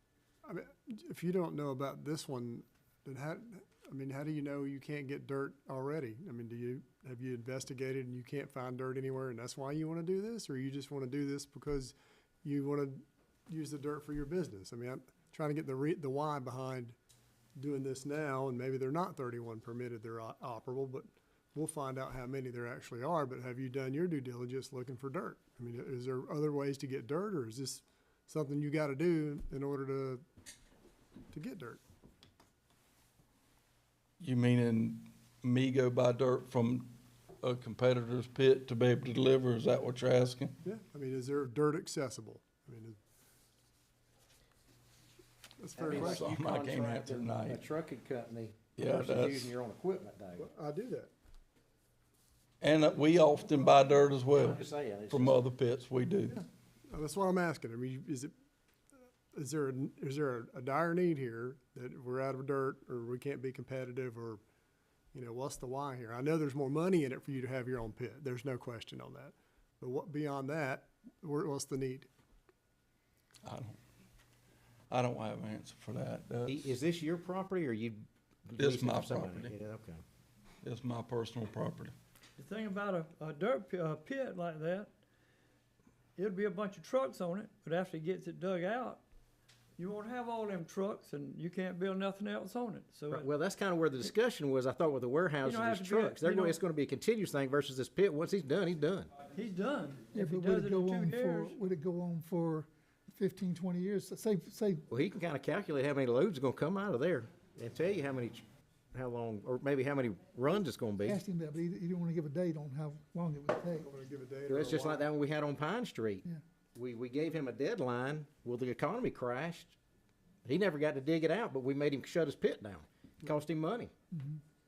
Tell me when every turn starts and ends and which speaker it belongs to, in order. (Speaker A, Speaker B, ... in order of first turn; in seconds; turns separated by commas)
Speaker A: 0.5-17.0, Speaker A: 17.6-30.2, Speaker A: 31.3-31.8, Speaker B: 34.2-40.5, Speaker A: 40.6-43.0, Speaker A: 45.6-46.3, Speaker C: 45.8-50.5, Speaker B: 45.9-47.7, Speaker B: 48.8-49.5, Speaker A: 50.4-51.1, Speaker B: 52.6-56.4, Speaker C: 54.3-55.4, Speaker A: 56.9-58.3, Speaker A: 59.3-64.4, Speaker A: 65.1-72.1, Speaker B: 73.5-73.8, Speaker B: 74.9-76.8, Speaker C: 76.5-80.0, Speaker B: 78.6-79.5, Speaker B: 80.6-81.9, Speaker D: 82.4-84.9, Speaker D: 86.2-89.0, Speaker D: 89.8-93.3, Speaker C: 93.1-99.1, Speaker D: 95.4-96.6, Speaker D: 99.3-101.6, Speaker E: 100.1-104.9, Speaker C: 104.9-111.2, Speaker E: 111.0-113.9, Speaker A: 113.8-115.1, Speaker C: 114.5-116.2, Speaker C: 116.8-119.8, Speaker C: 120.5-123.9, Speaker E: 124.1-124.4